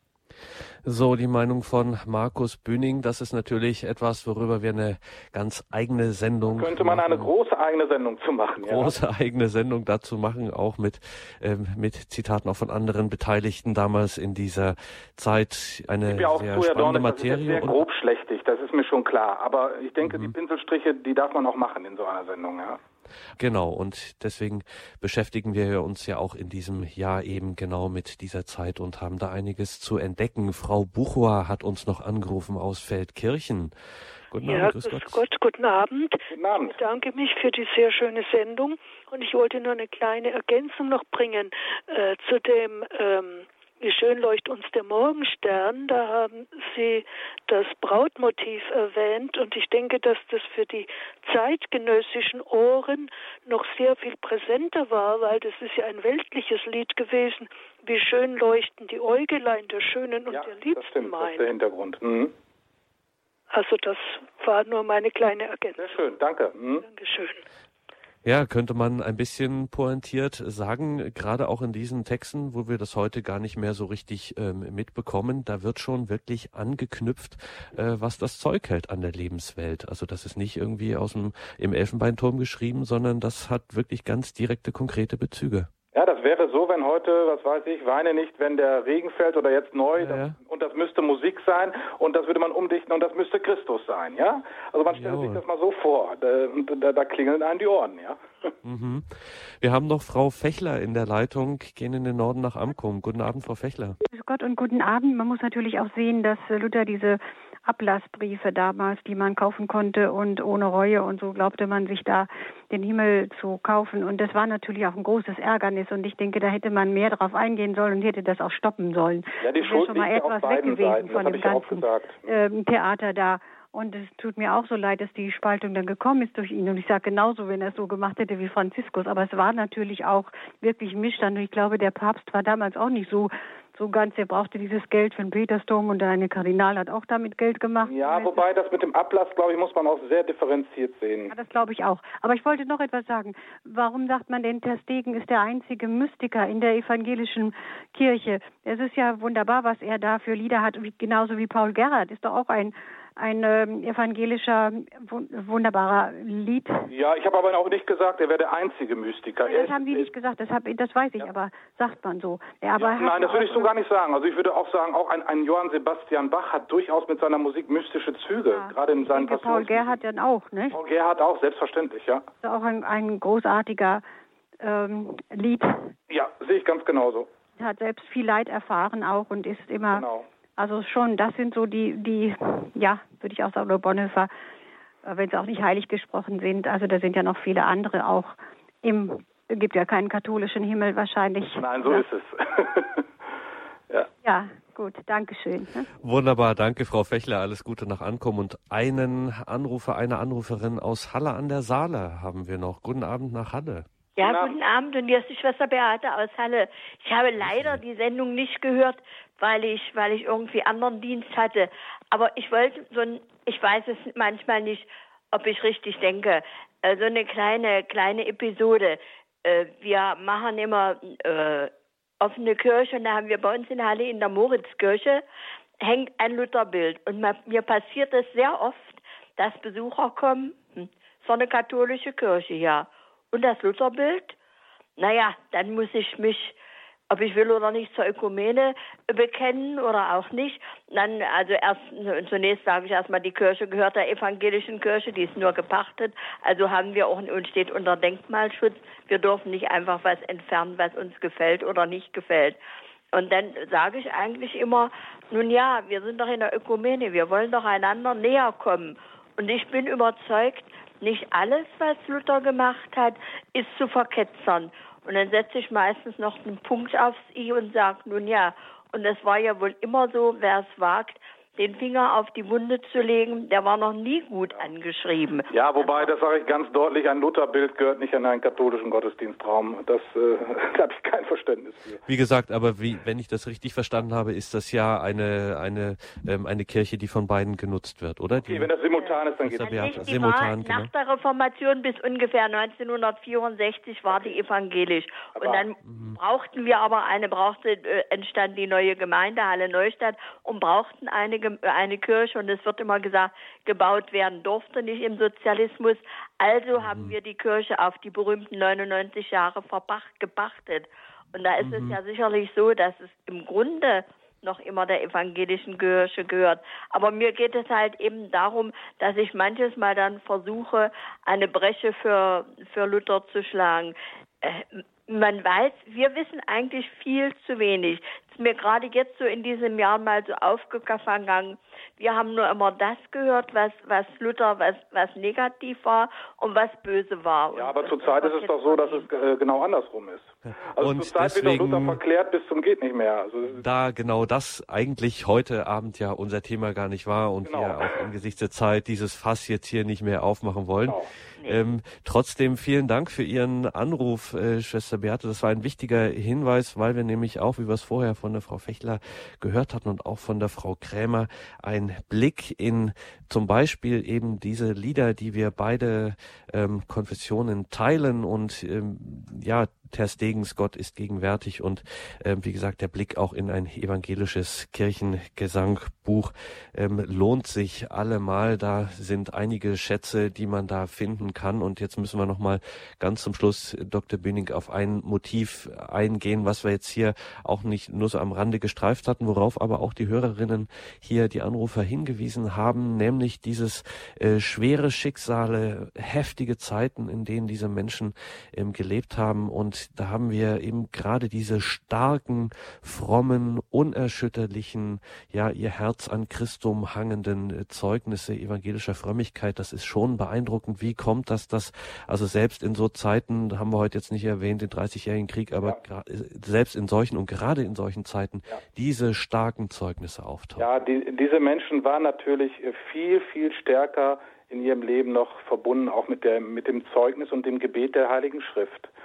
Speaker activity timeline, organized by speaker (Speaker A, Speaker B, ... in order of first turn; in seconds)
Speaker A: 0.8-7.3, 8.6-17.8, 20.0-20.4, 23.4-33.7, 34.3-35.2, 68.2-85.7, 90.0-90.4, 94.9-95.4, 98.6-104.0, 196.0-203.9, 207.4-207.8, 282.1-288.7, 289.4-290.9, 295.9-296.2, 306.8-307.1, 311.6-312.0, 340.4-342.0, 343.6-420.7
Speaker B: 6.5-8.9, 16.1-22.8, 36.3-36.8, 60.3-62.3, 65.8-66.9, 85.9-98.5, 119.4-122.3, 137.8-141.3, 156.9-160.1, 162.8-170.0, 170.7-172.3, 176.1-177.3, 179.9-180.3, 191.6-193.0, 204.2-204.6, 275.5-282.0, 288.3-290.1, 294.1-294.4, 295.4-295.6, 337.5-343.6, 347.4-348.1, 420.6-428.9
Speaker C: 34.4-61.5, 63.5-65.9, 66.8-67.4
Speaker D: 104.1-138.4, 141.3-156.9, 159.5-163.7, 168.5-170.8, 172.4-174.0, 174.6-175.9, 177.6-180.1, 180.6-184.3, 185.0-192.0, 194.2-195.9
Speaker E: 204.2-225.2, 225.8-234.4, 235.0-236.6, 237.1-252.6, 253.1-276.1, 288.9-339.1